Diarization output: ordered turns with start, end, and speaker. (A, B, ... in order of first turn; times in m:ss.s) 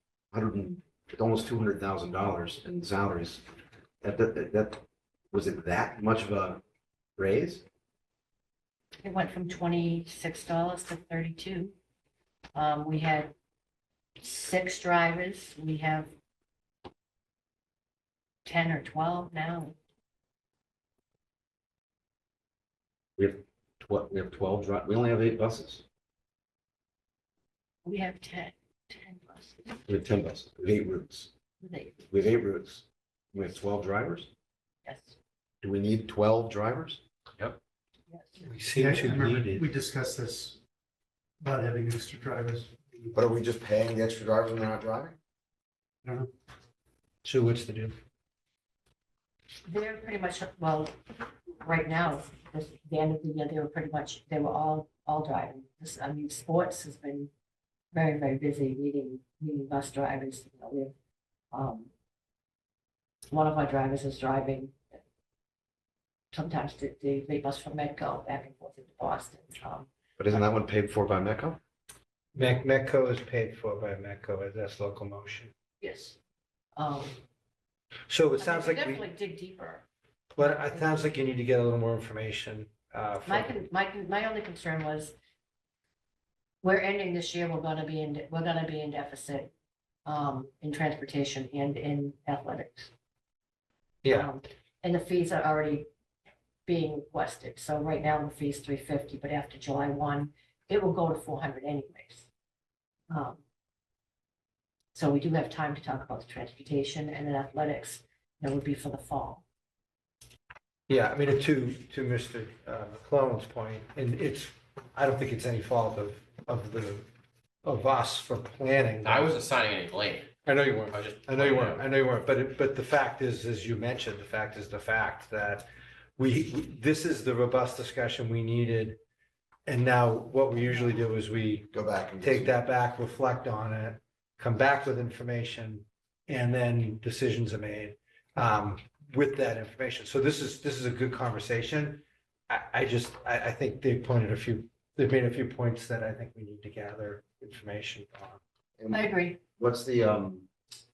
0:00.3-0:03.4 A
0:04.0-0:06.6 A
0:07.2-0:07.6 A
0:09.0-0:11.7 B
0:12.5-0:13.3 B
0:14.2-0:16.1 B
0:18.4-0:19.8 B
0:23.2-0:25.8 A
0:27.8-0:29.8 B
0:29.9-0:31.3 A
0:31.6-0:32.0 B
0:32.1-0:34.3 A
0:34.8-0:35.2 B
0:35.6-0:37.0 A
0:38.1-0:38.4 B
0:38.4-0:39.6 C
0:38.7-0:40.6 D
0:41.4-0:43.2 D
0:43.2-0:45.2 A
0:46.0-0:46.3 D
0:47.2-0:48.0 C
0:49.7-0:50.9 B
0:51.6-0:57.3 B
0:57.9-1:00.9 B
1:01.5-1:01.9 B
1:03.3-1:05.0 B
1:06.3-1:09.9 B
1:10.2-1:11.6 A
1:12.4-1:15.5 C
1:15.8-1:16.2 B
1:16.8-1:17.2 B
1:18.1-1:19.0 C
1:18.4-1:19.8 B
1:20.3-1:23.6 C
1:20.4-1:21.1 B
1:23.2-1:25.1 B
1:26.6-1:29.5 B
1:30.1-1:32.9 B
1:34.0-1:34.3 C
1:34.1-1:35.9 B
1:36.7-1:42.3 B
1:43.1-1:43.4 B
1:44.9-1:49.4 B
1:50.9-1:57.1 C
1:57.6-1:59.5 C
1:59.0-2:01.8 E
2:00.5-2:09.0 C
2:09.7-2:11.7 C
2:11.7-2:12.5 A
2:12.2-2:28.4 C
2:28.8-2:30.5 A
2:28.9-2:29.4 B